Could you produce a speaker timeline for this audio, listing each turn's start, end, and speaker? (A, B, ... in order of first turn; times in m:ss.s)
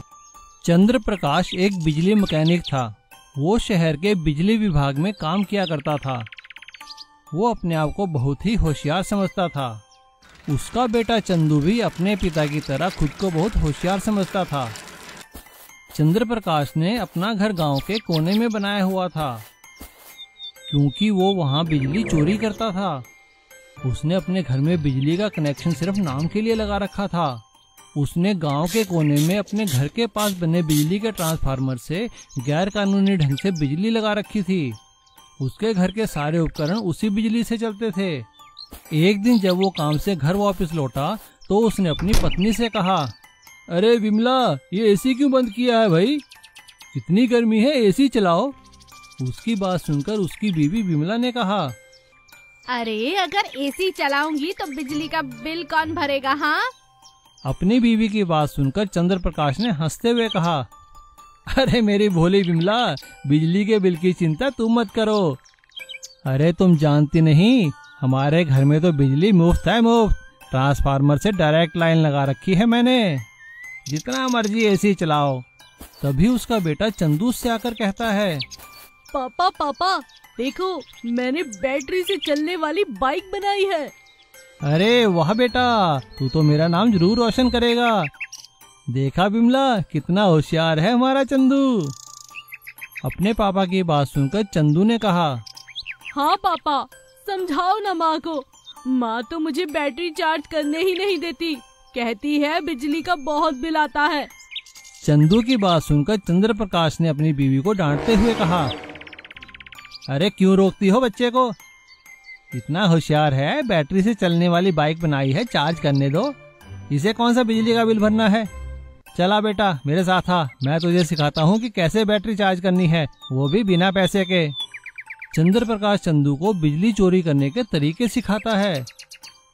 0:00.6-0:06.3 A
0:07.3-0:09.8 A
0:10.5-0:14.8 A
0:15.9-0:19.5 A
0:20.7-0:23.1 A
0:23.8-0:27.4 A
0:28.0-0:34.8 A
0:35.4-0:38.3 A
0:38.9-0:43.2 A
0:43.7-0:46.2 A
0:46.9-0:48.6 A
0:49.2-0:51.8 A
0:52.7-0:56.7 B
0:57.4-1:00.7 A
1:01.5-1:05.4 A
1:06.2-1:13.3 A
1:13.8-1:15.5 A
1:16.0-1:18.5 A
1:19.1-1:23.9 C
1:24.6-1:28.1 A
1:28.9-1:32.0 A
1:33.0-1:35.4 A
1:36.1-1:44.3 C
1:45.0-1:48.7 A
1:50.1-1:51.6 A
1:52.5-1:56.4 A
1:56.9-1:58.5 A
1:59.1-2:04.6 A
2:05.3-2:08.9 A